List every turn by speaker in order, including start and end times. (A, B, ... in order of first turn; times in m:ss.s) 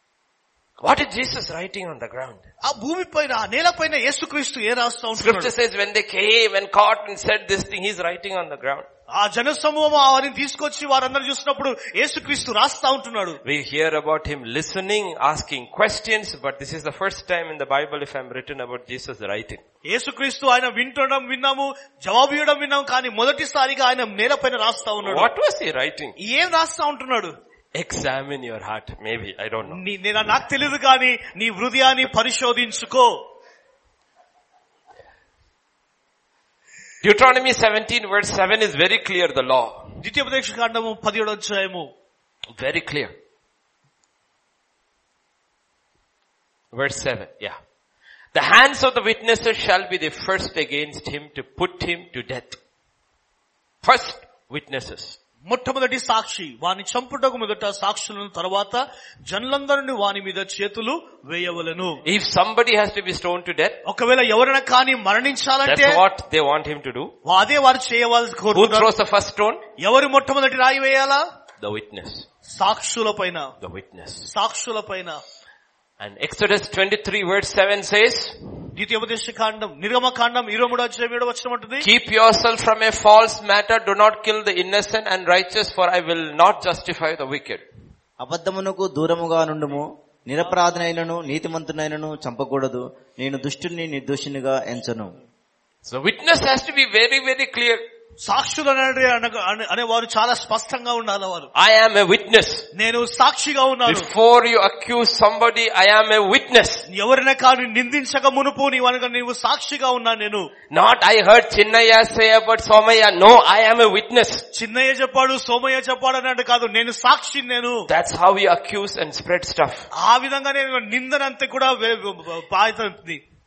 0:00.8-0:02.4 A
0:02.6-0:05.5 B
0:05.2-0:08.9 A
0:09.1-0:13.4 B
0:13.4-0:19.6 A
0:19.9-0:25.3 B
0:25.0-0:26.2 A
0:26.2-0:27.3 B
0:27.8-0:29.8 A
0:29.7-0:33.2 B
0:37.0-0:40.0 A
0:40.0-0:41.9 B
0:42.6-0:43.2 A
0:46.7-0:47.6 A
0:48.3-0:52.6 A
0:53.8-0:55.2 A
0:55.5-1:02.0 B
1:02.0-1:03.8 A
1:03.9-1:06.0 B
1:05.6-1:07.1 A
1:07.2-1:08.9 B
1:08.5-1:09.6 A
1:09.8-1:11.2 B
1:11.6-1:12.3 A
1:12.5-1:13.5 B
1:13.6-1:14.3 A
1:14.3-1:15.2 B
1:16.0-1:18.7 A
1:18.8-1:21.9 B
1:21.8-1:27.6 A
1:28.2-1:35.1 C
1:35.8-1:37.8 A
1:38.2-1:41.5 B
1:41.6-1:42.7 A
1:42.8-1:44.1 B
1:43.9-1:46.8 A
1:46.9-1:50.5 B
1:50.7-1:54.5 A
1:54.5-1:57.9 B
1:57.9-1:59.9 A
2:00.0-2:03.2 B